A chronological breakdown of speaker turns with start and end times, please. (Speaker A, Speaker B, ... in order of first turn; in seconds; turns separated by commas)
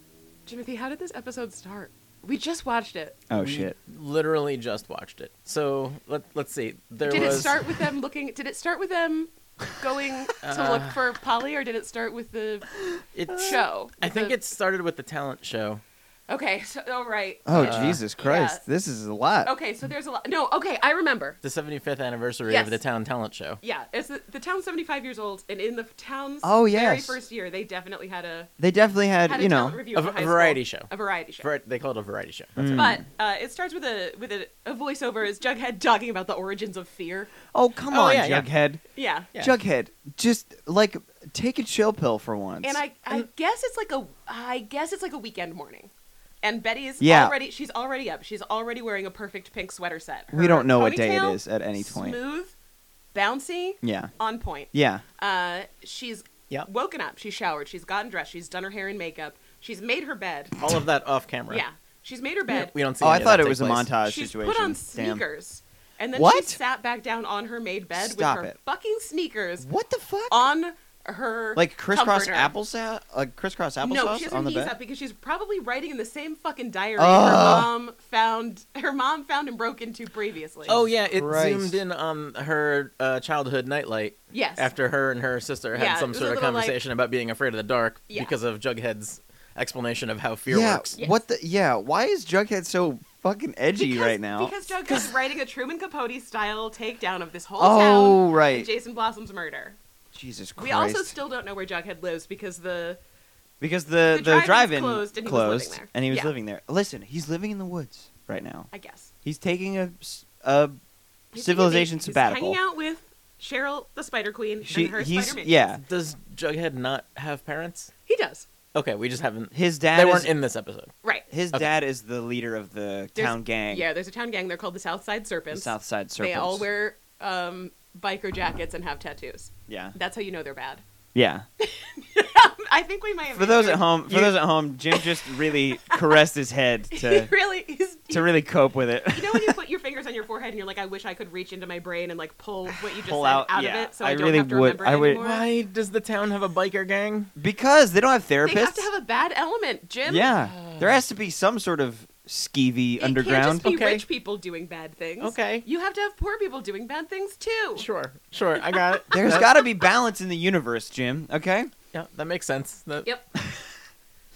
Speaker A: 0.5-3.2, Speaker B: 3.3-3.7, Speaker C: 3.4-7.6, Speaker A: 7.0-12.8, Speaker C: 10.4-11.0, Speaker C: 13.1-15.8, Speaker A: 13.3-14.4, Speaker A: 16.3-18.6, Speaker B: 17.4-19.5, Speaker C: 17.6-18.0, Speaker A: 19.4-21.4, Speaker C: 21.4-23.6, Speaker A: 22.4-22.8, Speaker A: 23.6-28.5, Speaker B: 26.4-27.2, Speaker B: 28.6-29.8, Speaker A: 29.3-31.5, Speaker C: 29.9-32.8, Speaker B: 32.5-33.0, Speaker A: 32.7-37.3, Speaker B: 37.5-38.8, Speaker C: 37.9-38.5, Speaker A: 39.0-39.3, Speaker B: 39.4-42.8, Speaker A: 42.6-45.9, Speaker A: 46.4-52.5, Speaker B: 47.0-47.3, Speaker B: 50.3-52.2, Speaker A: 53.1-60.7, Speaker B: 53.8-54.1, Speaker B: 54.7-55.0, Speaker C: 60.6-61.6, Speaker A: 61.5-62.7, Speaker C: 62.5-63.9, Speaker B: 63.0-65.2, Speaker A: 64.0-69.7, Speaker B: 66.1-66.6, Speaker B: 67.9-68.5, Speaker B: 69.6-70.4, Speaker A: 70.3-72.5, Speaker B: 71.5-74.7, Speaker A: 73.8-80.8, Speaker B: 77.0-77.7, Speaker B: 80.7-81.8, Speaker C: 80.7-91.0, Speaker A: 84.3-84.7, Speaker A: 85.7-86.8, Speaker A: 88.1-88.3, Speaker B: 90.5-94.5, Speaker A: 93.8-99.8, Speaker B: 97.6-98.7, Speaker B: 100.1-101.1, Speaker A: 100.6-103.0, Speaker B: 103.6-108.7, Speaker A: 104.1-106.3, Speaker A: 108.7-109.1, Speaker B: 109.2-110.8, Speaker A: 111.3-115.5, Speaker B: 111.3-112.6, Speaker B: 114.6-115.8, Speaker C: 115.8-117.9, Speaker A: 118.1-118.4, Speaker C: 118.7-120.9, Speaker B: 119.5-120.3, Speaker A: 121.0-121.3, Speaker B: 121.3-123.8, Speaker A: 123.2-130.8, Speaker B: 125.5-126.6, Speaker B: 129.7-129.9, Speaker B: 131.1-131.4, Speaker A: 131.6-134.3, Speaker B: 133.3-137.3, Speaker A: 134.9-136.2, Speaker A: 136.9-138.4, Speaker B: 138.1-139.6, Speaker A: 139.1-145.5, Speaker B: 142.9-145.2, Speaker C: 145.2-147.3, Speaker B: 147.3-148.9, Speaker A: 148.4-150.3, Speaker B: 150.1-153.7, Speaker C: 150.4-151.0, Speaker A: 153.0-157.8, Speaker C: 153.6-154.1, Speaker C: 155.2-155.7, Speaker C: 157.7-159.5, Speaker A: 158.7-159.1, Speaker B: 159.1-161.7, Speaker C: 161.9-163.1